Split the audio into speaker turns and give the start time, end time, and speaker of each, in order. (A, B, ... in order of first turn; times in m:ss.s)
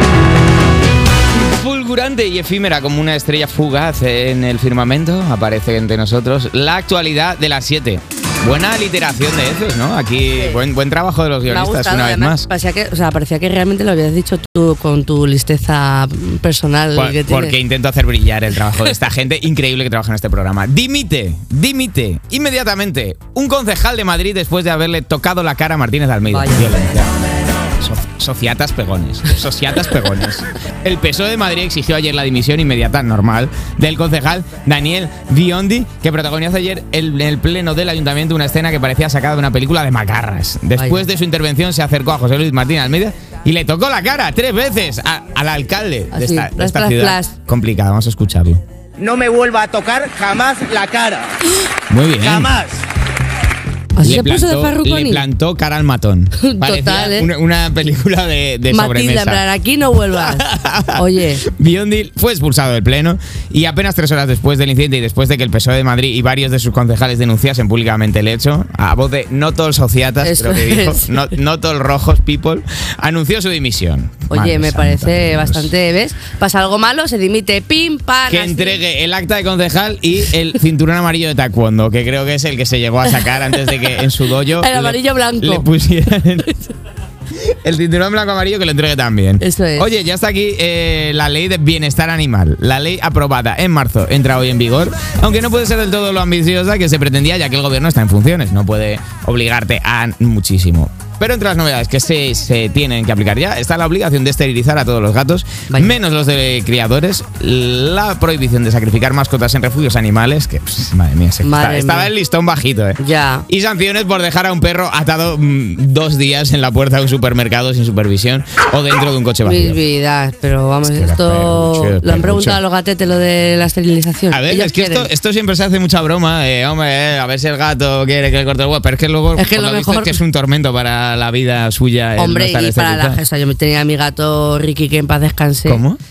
0:01.3-0:12.5 A
0:10.3-0:10.6 B
0:11.5-0:17.5 B
0:16.9-0:27.1 A
0:26.3-0:26.7 B
0:27.8-0:48.6 A
0:40.8-0:41.0 B
0:46.1-0:47.3 B
0:49.0-0:51.4 C
0:51.9-0:52.5 A
0:52.2-0:52.8 C
0:53.9-0:55.2 B
0:54.0-0:59.4 A
0:56.4-0:57.3 B
0:58.7-1:01.4 B
1:00.1-1:15.7 A
1:10.2-1:11.2 B
1:14.3-1:18.8 B
1:18.3-1:26.6 A
1:23.2-1:23.9 B
1:24.5-1:25.7 B
1:27.4-1:59.8 A
1:29.4-1:29.9 B
1:45.7-1:46.0 B
1:51.4-1:52.1 B
1:53.0-1:53.4 B
1:59.4-2:05.1 B
2:00.8-2:02.6 A
2:04.3-2:13.2 A
2:09.4-2:10.2 B
2:12.2-2:15.8 B
2:15.6-2:16.0 A